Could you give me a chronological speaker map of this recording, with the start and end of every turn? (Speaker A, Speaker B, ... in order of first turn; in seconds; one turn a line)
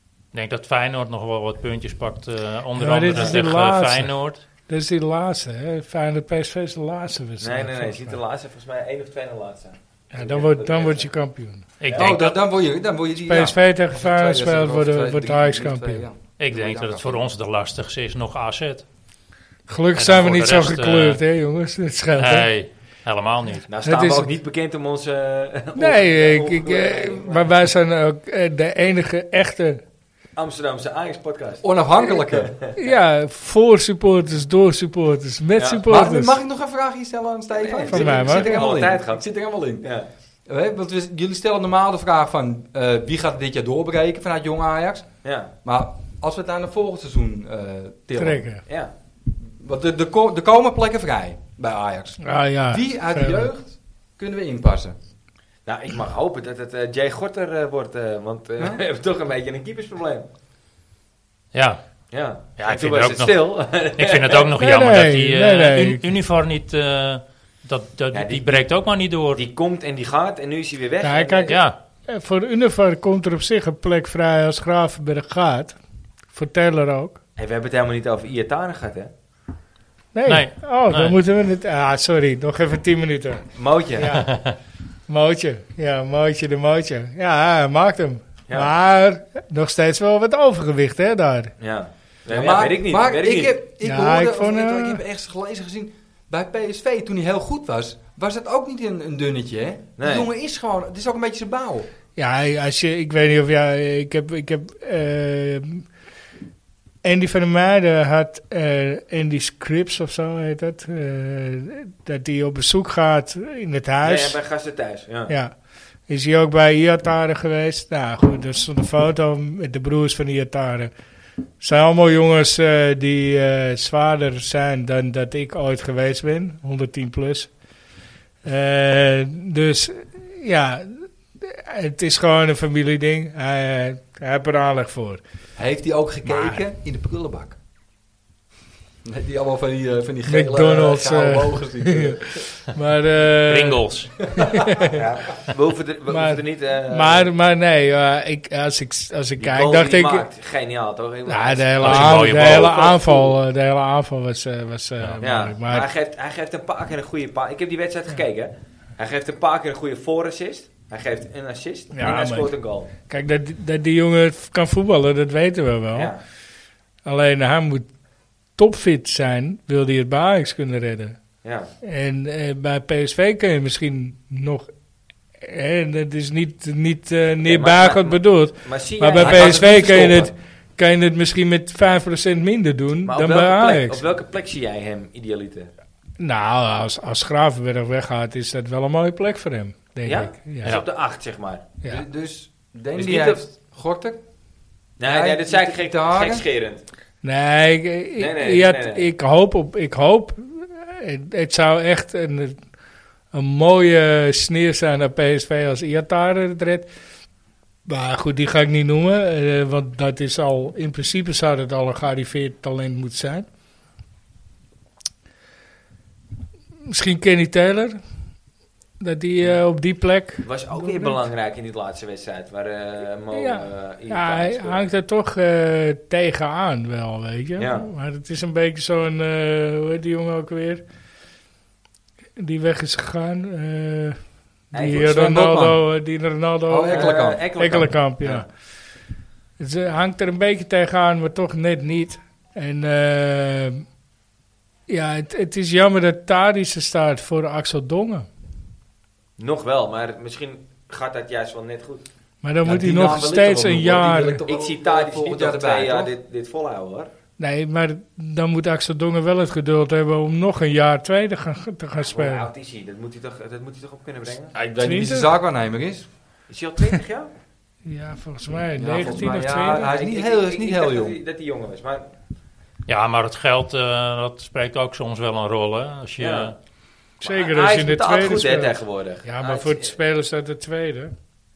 Speaker A: 0.3-4.4
Speaker B: 2.8-4.1
Speaker B: 4.7-8.2
Speaker C: 7.4-11.1
Speaker B: 10.1-11.7
Speaker A: 11.8-12.4
Speaker C: 11.8-12.2
Speaker D: 11.9-17.2
Speaker B: 13.2-16.0
Speaker A: 16.4-18.9
Speaker B: 19.7-22.5
Speaker A: 20.0-21.2
Speaker A: 22.2-23.7
Speaker C: 23.7-27.5
Speaker B: 23.8-24.3
Speaker B: 25.8-29.8
Speaker C: 30.4-32.8
Speaker D: 31.6-32.5
Speaker B: 32.8-36.4
Speaker C: 35.6-35.8
Speaker D: 35.9-39.9
Speaker C: 37.5-39.3
Speaker B: 37.9-38.7
Speaker C: 39.8-40.1
Speaker D: 40.5-45.1
Speaker C: 45.2-45.5
Speaker D: 45.6-48.5
Speaker B: 48.2-48.6
Speaker C: 48.7-48.9
Speaker D: 49.4-55.0
Speaker B: 52.2-53.5
Speaker C: 55.7-60.3
Speaker A: 61.5-61.8
Speaker C: 62.1-64.5
Speaker A: 62.6-69.4
Speaker B: 64.6-66.0
Speaker C: 68.1-68.7
Speaker C: 69.3-71.6
Speaker B: 71.0-75.8
Speaker A: 71.5-71.8
Speaker B: 76.3-77.2
Speaker C: 77.4-79.1
Speaker B: 80.1-84.3
Speaker A: 80.3-81.2
Speaker C: 83.6-84.2
Speaker A: 84.3-84.5
Speaker B: 85.1-91.5
Speaker C: 91.6-93.6
Speaker D: 92.3-101.9
Speaker B: 93.8-95.0
Speaker C: 100.0-100.3
Speaker B: 102.2-105.8
Speaker B: 107.0-114.4
Speaker C: 114.0-115.3
Speaker B: 115.3-115.5
Speaker B: 116.1-120.9
Speaker B: 121.6-127.5
Speaker B: 128.4-135.2
Speaker D: 135.6-137.6
Speaker B: 136.2-136.6
Speaker D: 139.1-142.4
Speaker B: 140.3-143.8
Speaker A: 143.5-144.2
Speaker D: 144.3-144.7
Speaker B: 144.4-145.0
Speaker C: 144.9-147.3
Speaker B: 146.1-150.3
Speaker C: 149.4-153.4
Speaker B: 151.3-155.9
Speaker A: 151.8-152.9
Speaker C: 155.2-162.9
Speaker B: 161.9-166.1
Speaker C: 165.9-166.2
Speaker B: 167.1-167.9
Speaker B: 168.6-171.2
Speaker C: 171.4-171.7
Speaker B: 171.8-174.7
Speaker B: 175.4-184.0
Speaker C: 177.4-180.3
Speaker D: 179.2-180.3
Speaker C: 183.1-185.7
Speaker B: 186.2-190.8
Speaker C: 190.1-191.6
Speaker D: 191.8-194.2
Speaker C: 192.9-193.4
Speaker C: 195.0-196.8
Speaker D: 195.0-196.4
Speaker B: 197.2-202.6
Speaker C: 198.2-199.1
Speaker B: 203.3-206.9
Speaker B: 207.9-213.5
Speaker B: 216.9-218.0
Speaker B: 219.0-221.2
Speaker C: 220.4-224.9
Speaker B: 223.3-230.8
Speaker C: 227.6-227.9
Speaker B: 232.4-234.2
Speaker C: 234.7-235.3
Speaker B: 234.7-238.5
Speaker D: 234.9-235.8
Speaker D: 236.7-237.4
Speaker C: 236.9-238.5
Speaker B: 239.6-243.8
Speaker B: 244.9-248.3
Speaker C: 249.4-252.1
Speaker B: 252.4-254.4
Speaker D: 252.6-256.1
Speaker C: 254.5-257.1
Speaker B: 257.4-262.5
Speaker C: 262.0-264.5
Speaker D: 264.5-266.1
Speaker B: 264.8-265.3
Speaker C: 266.5-267.3
Speaker B: 267.9-269.9
Speaker D: 268.8-271.2
Speaker C: 268.9-272.1
Speaker A: 272.9-276.6
Speaker C: 276.2-276.5
Speaker C: 277.2-279.9
Speaker B: 277.2-278.7
Speaker B: 279.2-281.1